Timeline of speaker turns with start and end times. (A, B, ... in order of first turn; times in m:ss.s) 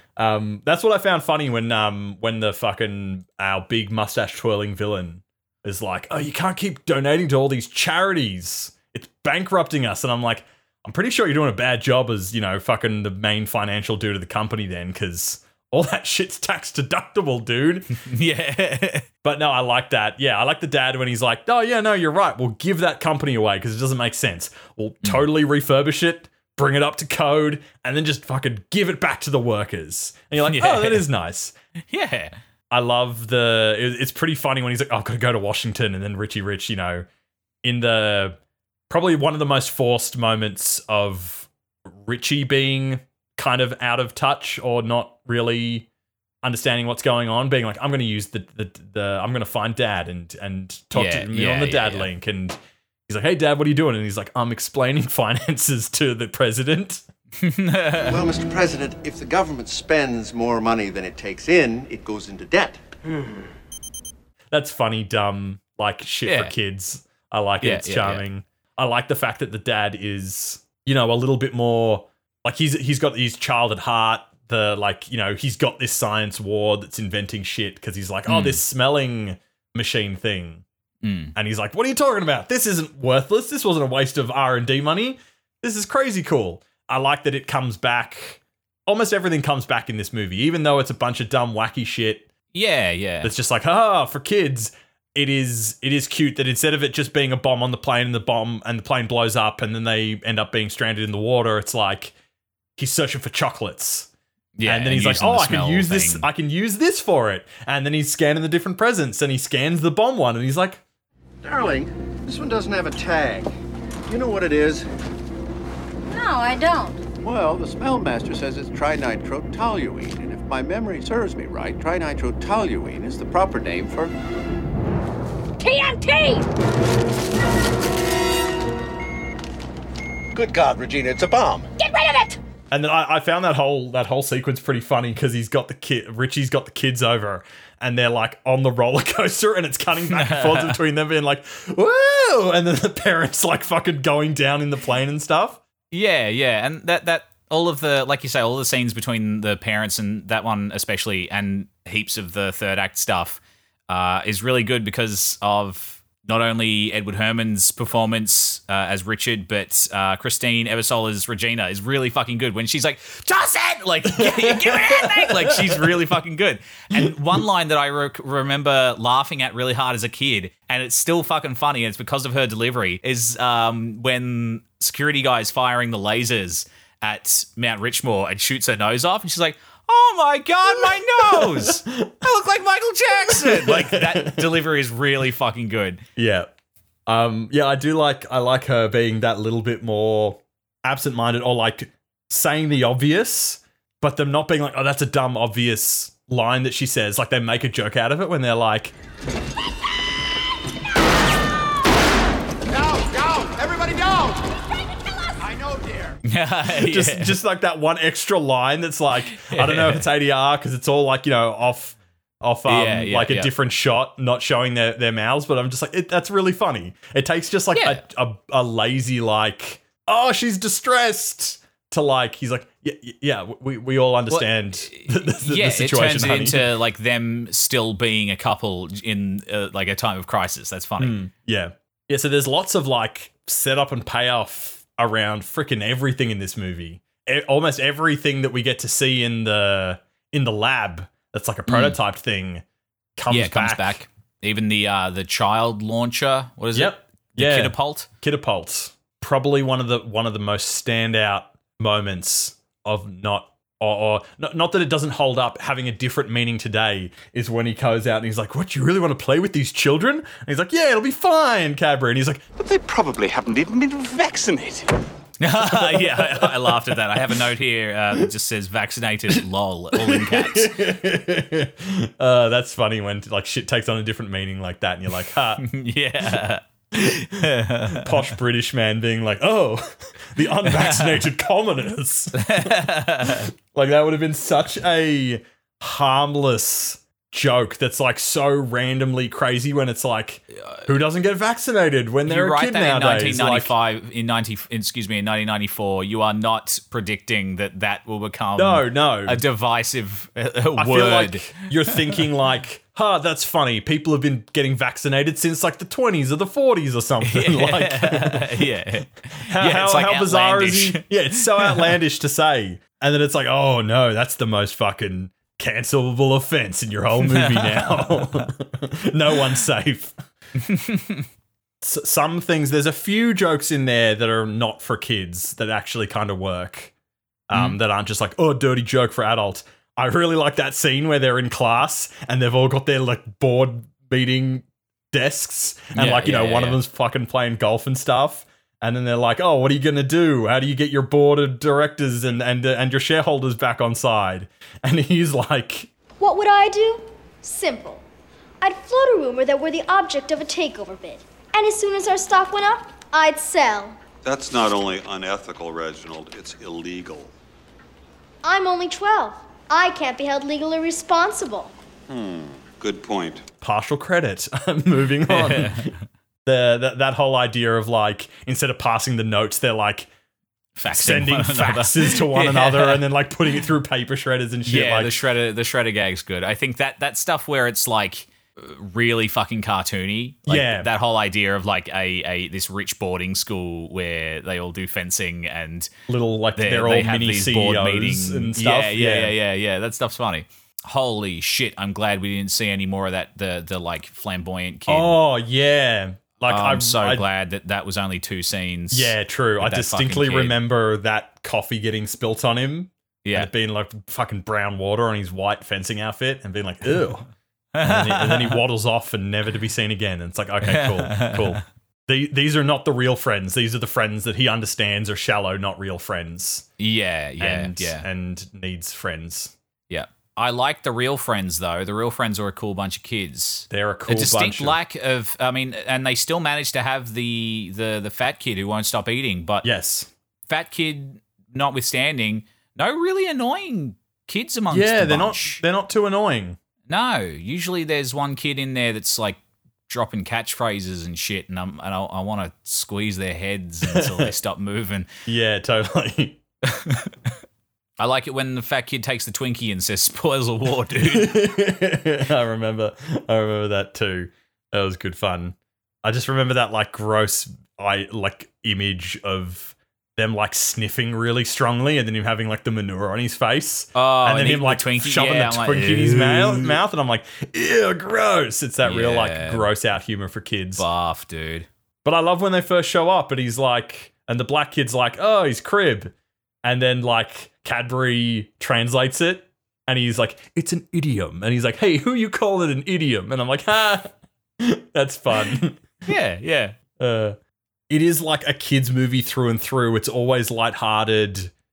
0:00.2-0:18.0 A
0:18.0-0:19.0 B
0:19.2-0:31.5 A
0:30.5-0:31.0 B
0:31.9-0:32.3 B
0:32.7-0:37.1 A
0:37.6-0:45.9 A
0:46.4-0:57.0 A
0:50.9-0:52.1 B
0:57.4-0:58.2 B
0:58.0-1:02.8 C
1:04.5-1:20.6 A
1:06.2-1:06.5 B
1:07.6-1:08.2 B
1:18.3-1:18.6 B
1:21.0-1:21.3 B
1:21.4-1:32.3 A
1:32.5-1:33.3 B
1:33.2-1:42.1 A
1:42.8-1:44.1 A
1:44.6-1:46.2 B
1:44.6-1:50.8 A
1:51.4-1:53.5 C
1:54.1-1:54.8 C
1:56.1-1:57.0 D
1:57.2-2:04.1 C
2:05.6-2:06.5 D
2:10.3-2:11.7 C
2:11.8-2:12.4 D
2:12.7-2:25.6 A
2:20.1-2:20.8 B
2:25.9-3:06.0 B
2:44.1-2:45.9 A
3:00.8-3:02.1 A
3:03.1-3:04.5 A
3:06.2-3:06.5 A
3:07.0-3:18.9 A
3:22.7-3:24.4 C
3:25.4-3:26.2 C
3:26.2-3:27.4 B
3:26.7-3:46.7 A
3:29.3-3:30.1 B
3:32.7-3:33.5 B
3:37.7-3:38.0 B
3:44.3-3:51.2 B
3:51.0-4:02.6 A
4:01.7-4:02.0 B
4:03.2-4:04.0 A
4:03.3-4:08.1 B
4:06.7-4:22.4 A
4:22.6-4:24.9 E
4:25.4-4:30.7 B
4:25.6-4:26.8 A
4:29.9-4:35.6 A
4:35.6-4:38.1 B
4:37.0-4:42.8 A
4:40.6-4:41.2 B
4:42.4-4:43.5 B
4:43.3-4:53.7 A
4:50.6-4:50.9 B
4:52.2-5:02.2 B
4:58.6-4:59.4 A
5:00.8-5:08.5 A
5:07.2-5:11.9 B
5:09.5-5:20.2 A
5:17.2-5:18.5 B
5:20.6-5:21.2 B
5:21.8-5:26.9 A
5:27.5-5:45.9 A
5:27.5-5:27.8 B
5:35.9-5:36.8 B
5:46.2-5:48.0 F
5:48.6-5:54.0 F
5:54.2-5:57.3 G
5:58.4-6:01.7 F
6:02.1-6:03.4 G
6:03.6-6:05.9 A
6:05.3-6:05.9 B
6:06.4-6:10.1 A
6:10.8-6:13.0 B
6:10.9-6:15.2 A
6:14.6-6:25.9 B
6:20.4-6:20.9 A
6:26.1-6:29.3 A
6:26.5-6:35.2 B
6:34.9-6:37.2 A
6:36.5-6:40.6 B
6:38.9-6:47.3 A
6:43.2-6:43.5 B
6:47.7-6:48.6 B
6:47.8-6:56.7 A
6:50.6-6:51.6 B
6:56.8-6:58.0 B
6:57.4-6:59.5 A
6:59.9-7:09.7 B
7:03.7-7:04.8 A
7:09.6-7:10.1 A
7:10.5-7:15.6 B
7:14.7-7:16.6 A
7:16.9-7:25.1 B
7:23.9-7:24.3 A
7:25.3-7:26.4 A
7:26.8-7:27.1 B
7:28.0-7:31.4 B
7:31.0-7:50.8 A
7:43.9-7:46.8 B
7:48.8-7:49.7 B
7:50.8-7:51.7 B
7:52.0-8:05.8 A
8:06.1-8:06.8 B
8:07.0-8:07.4 A
8:07.9-8:11.5 A